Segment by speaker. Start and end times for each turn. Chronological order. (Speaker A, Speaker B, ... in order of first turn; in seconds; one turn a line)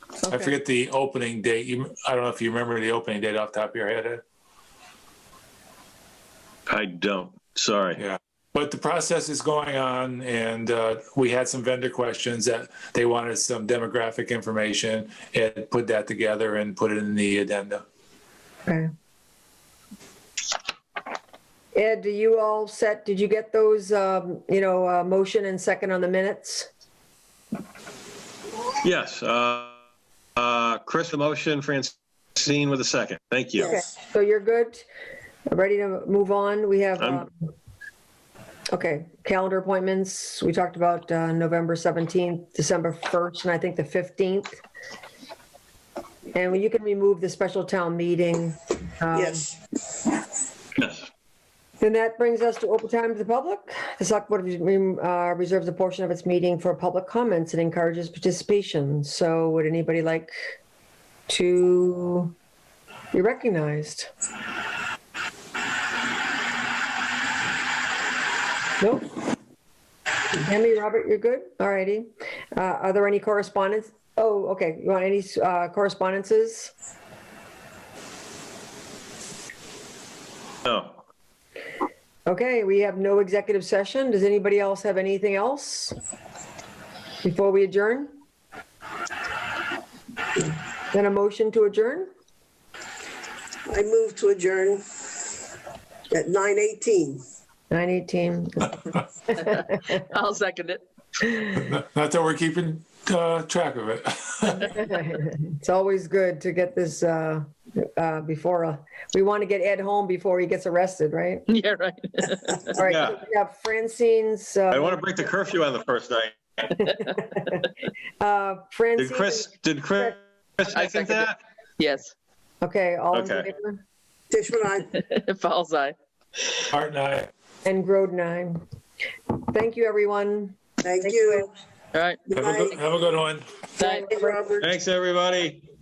Speaker A: 0.2-0.5
Speaker B: 0.3-4.2
Speaker C: 6.7-8.0
Speaker B: 8.0-17.8
Speaker A: 21.7-26.7
Speaker C: 28.8-29.8
Speaker C: 30.4-33.7
Speaker D: 33.6-33.9
Speaker A: 33.6-34.8
Speaker A: 35.5-37.5
Speaker C: 37.0-37.2
Speaker A: 38.7-44.6
Speaker A: 46.3-49.5
Speaker D: 49.1-49.5
Speaker C: 50.8-51.0
Speaker A: 51.8-60.4
Speaker A: 61.3-62.3
Speaker A: 63.1-64.1
Speaker A: 68.8-69.1
Speaker A: 70.4-76.7
Speaker C: 80.6-81.0
Speaker A: 82.3-86.0
Speaker A: 87.2-88.2
Speaker A: 90.9-92.1
Speaker D: 93.7-94.8
Speaker D: 96.1-97.2
Speaker A: 97.7-98.9
Speaker E: 99.3-100.8
Speaker B: 101.5-104.7
Speaker A: 104.6-111.5
Speaker E: 111.5-112.7
Speaker A: 112.7-115.0
Speaker C: 112.8-113.2
Speaker C: 114.7-116.9
Speaker A: 116.8-117.6
Speaker A: 118.2-120.2
Speaker C: 119.0-121.4
Speaker E: 120.7-122.1
Speaker A: 122.6-123.8
Speaker C: 123.1-123.5
Speaker D: 124.3-125.0
Speaker E: 124.9-126.0
Speaker B: 126.7-127.3
Speaker A: 127.6-128.6
Speaker A: 129.3-131.5
Speaker D: 130.8-131.5
Speaker E: 131.9-132.2
Speaker D: 132.2-132.8
Speaker B: 132.3-133.5
Speaker E: 133.8-134.1
Speaker D: 133.8-134.7
Speaker A: 133.8-134.4
Speaker C: 134.6-135.7